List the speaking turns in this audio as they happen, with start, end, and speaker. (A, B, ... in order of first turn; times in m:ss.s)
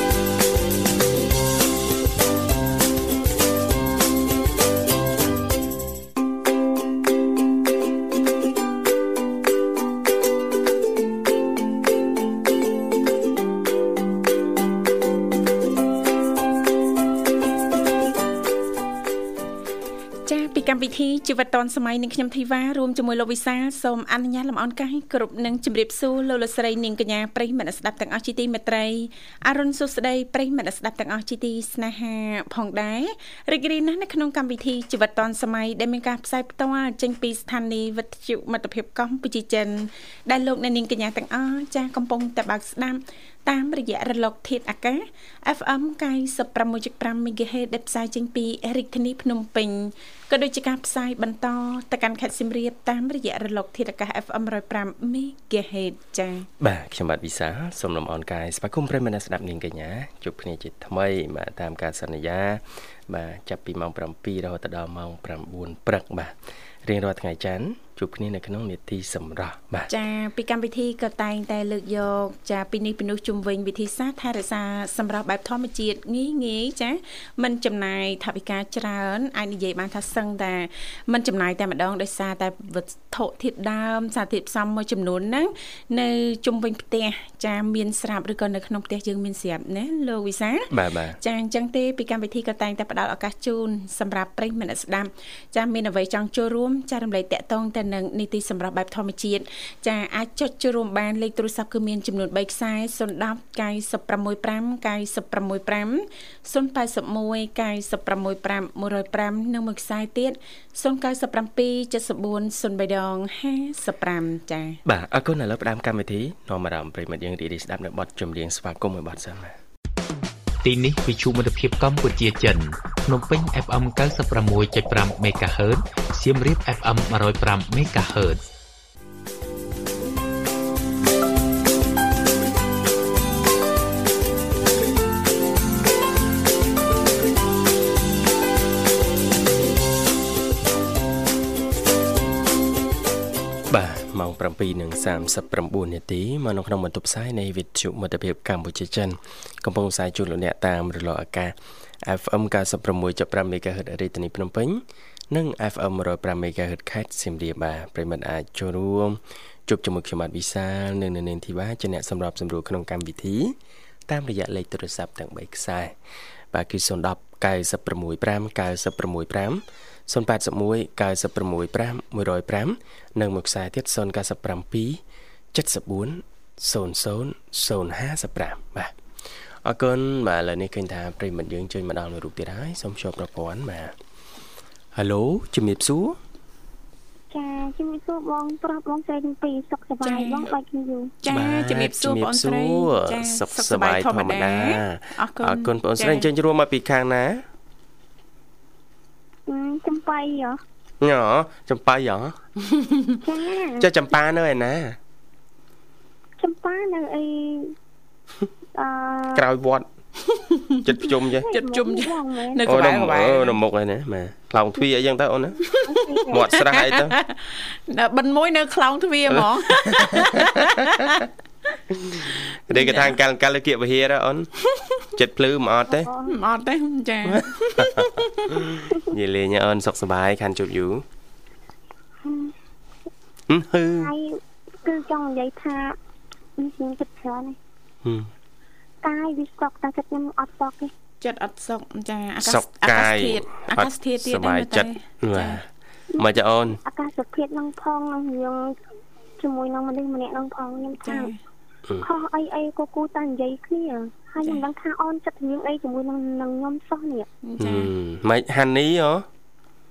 0:20.2-0:56.5 A
0:56.6-1:06.3 B
1:06.8-1:09.9 B
1:09.9-1:54.8 A
1:30.7-1:31.2 B
1:54.8-1:59.5 B
2:00.6-2:08.4 C
2:23.7-2:43.5 B
2:44.1-2:45.9 B
2:46.5-2:55.0 B
2:55.5-2:58.9 B
2:59.6-3:03.9 B
3:04.9-3:06.2 B
3:07.3-3:11.1 D
3:10.0-3:10.5 A
3:11.2-3:16.3 A
3:11.3-3:17.4 B
3:19.5-3:20.6 D
3:21.0-3:22.4 B
3:22.8-3:23.2 A
3:23.2-3:23.9 D
3:23.8-3:25.0 B
3:26.4-3:27.7 D
3:28.8-3:29.4 D
3:29.3-3:29.8 B
3:30.2-3:30.8 A
3:30.8-3:31.5 B
3:31.3-3:32.6 D
3:31.5-3:33.6 A
3:32.6-3:35.6 B
3:35.6-3:41.2 A
3:35.9-3:36.5 D
3:36.3-3:37.2 B
3:39.3-3:40.3 B
3:42.0-3:44.5 B
3:42.7-3:43.2 A
3:44.8-3:45.0 A
3:45.1-3:46.1 B
3:45.9-3:46.3 D
3:46.2-3:48.6 A
3:47.3-3:51.0 B
3:52.2-3:52.5 D
3:53.5-3:54.1 B
3:54.0-3:56.0 D
3:56.6-3:57.6 D
3:58.0-3:58.3 B
3:59.0-4:00.9 D
4:01.2-4:05.6 A
4:02.4-4:06.8 B
4:06.1-4:08.7 D
4:09.4-4:11.3 D
4:11.0-4:11.4 A
4:12.0-4:17.3 D
4:17.4-4:17.9 A
4:17.6-4:19.2 B